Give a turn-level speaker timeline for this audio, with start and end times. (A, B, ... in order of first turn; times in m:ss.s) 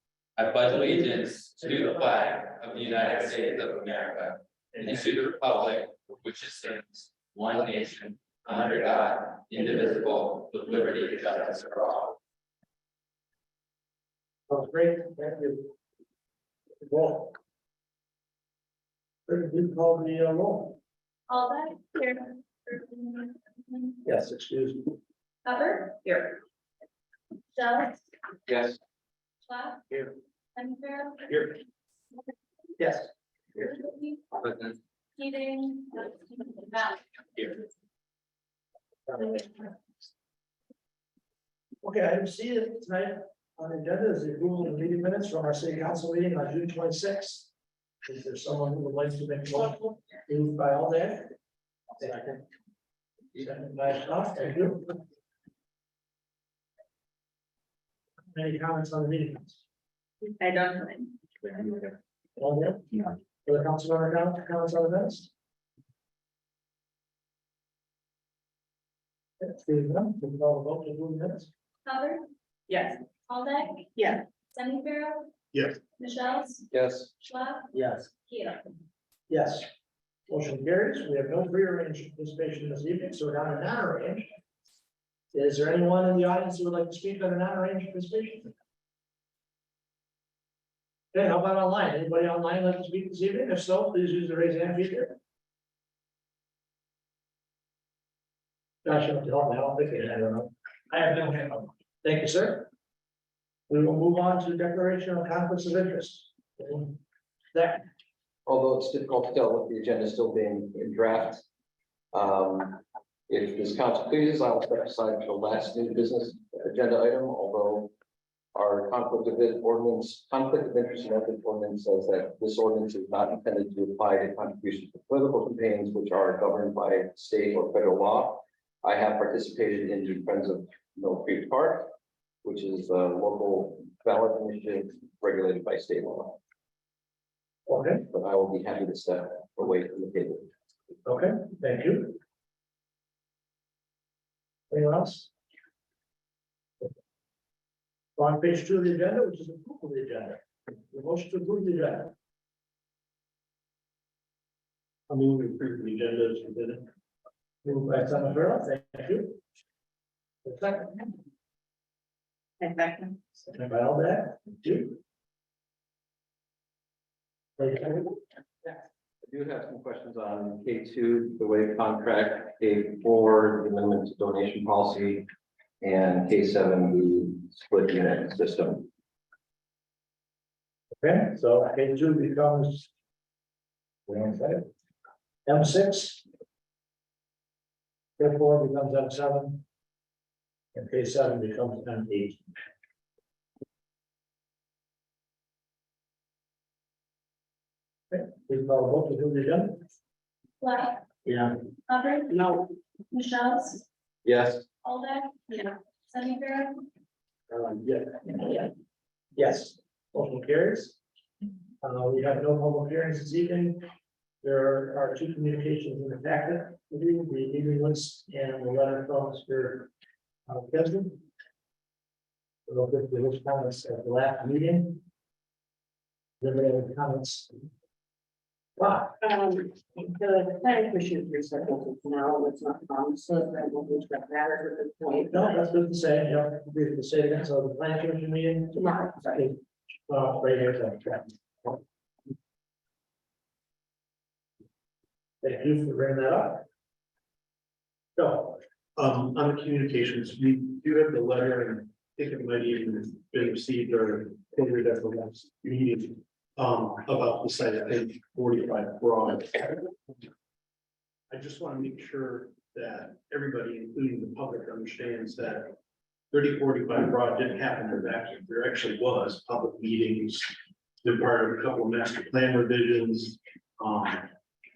0:00.4-0:12.1 A
0:01.6-0:02.0 B
0:14.5-0:15.7 B
0:16.8-0:17.4 B
0:19.3-0:20.8 B
0:21.3-0:24.0 C
0:24.0-0:24.9 B
0:25.4-0:26.4 C
0:27.5-0:28.0 C
0:28.5-0:28.8 D
0:29.4-0:31.6 C
0:32.8-0:33.1 B
0:33.6-0:34.4 C
0:34.4-0:34.8 A
0:35.2-0:37.0 C
0:41.8-0:47.5 B
0:48.0-0:51.3 B
0:52.0-0:52.4 B
0:53.3-0:55.0 B
0:58.3-0:59.6 B
1:00.4-1:01.9 E
1:02.4-1:05.3 B
1:09.4-1:11.5 B
1:11.8-1:12.3 C
1:12.7-1:13.0 E
1:13.3-1:14.0 C
1:14.0-1:14.2 E
1:14.5-1:15.3 C
1:15.9-1:18.6 C
1:16.7-1:17.1 D
1:17.7-1:18.0 B
1:19.3-1:19.7 B
1:20.3-1:24.3 B
1:25.3-1:28.5 B
1:31.1-1:35.2 B
1:38.8-1:42.7 B
1:43.7-1:47.0 B
1:47.5-1:47.8 B
1:48.4-1:51.4 D
1:52.1-1:57.9 D
1:58.5-2:11.9 D
2:12.4-2:16.4 D
2:17.7-2:18.1 B
2:18.1-2:20.5 D
2:21.0-2:22.2 B
2:24.7-2:25.3 B
2:28.2-2:32.1 B
2:35.1-2:36.9 F
2:37.6-2:39.4 B
2:40.4-2:41.1 B
2:42.6-2:43.2 E
2:43.5-2:45.0 B
2:47.6-2:48.1 B
2:49.2-2:55.3 D
2:55.8-2:58.9 D
3:01.0-3:02.9 B
3:04.1-3:04.6 B
3:05.4-3:06.2 B
3:08.2-3:09.6 B
3:10.7-3:12.4 B
3:18.1-3:19.8 B
3:20.6-3:21.0 C
3:21.2-3:21.5 B
3:21.9-3:22.6 C
3:22.3-3:22.6 E
3:23.1-3:23.8 C
3:24.2-3:24.6 D
3:24.8-3:26.8 C
3:27.5-3:28.6 B
3:29.3-3:31.0 B
3:31.8-3:33.8 B
3:34.4-3:39.9 B
3:40.5-3:41.2 B
3:42.7-3:45.0 B
3:46.4-3:47.5 B
3:48.8-3:49.2 B
3:49.2-3:55.6 E
3:55.3-3:59.6 B
3:58.7-3:59.5 E
4:00.1-4:01.8 B
4:05.4-4:06.6 B
4:08.2-4:08.6 B
4:09.0-4:19.8 F
4:21.3-4:25.8 F
4:26.3-4:34.3 F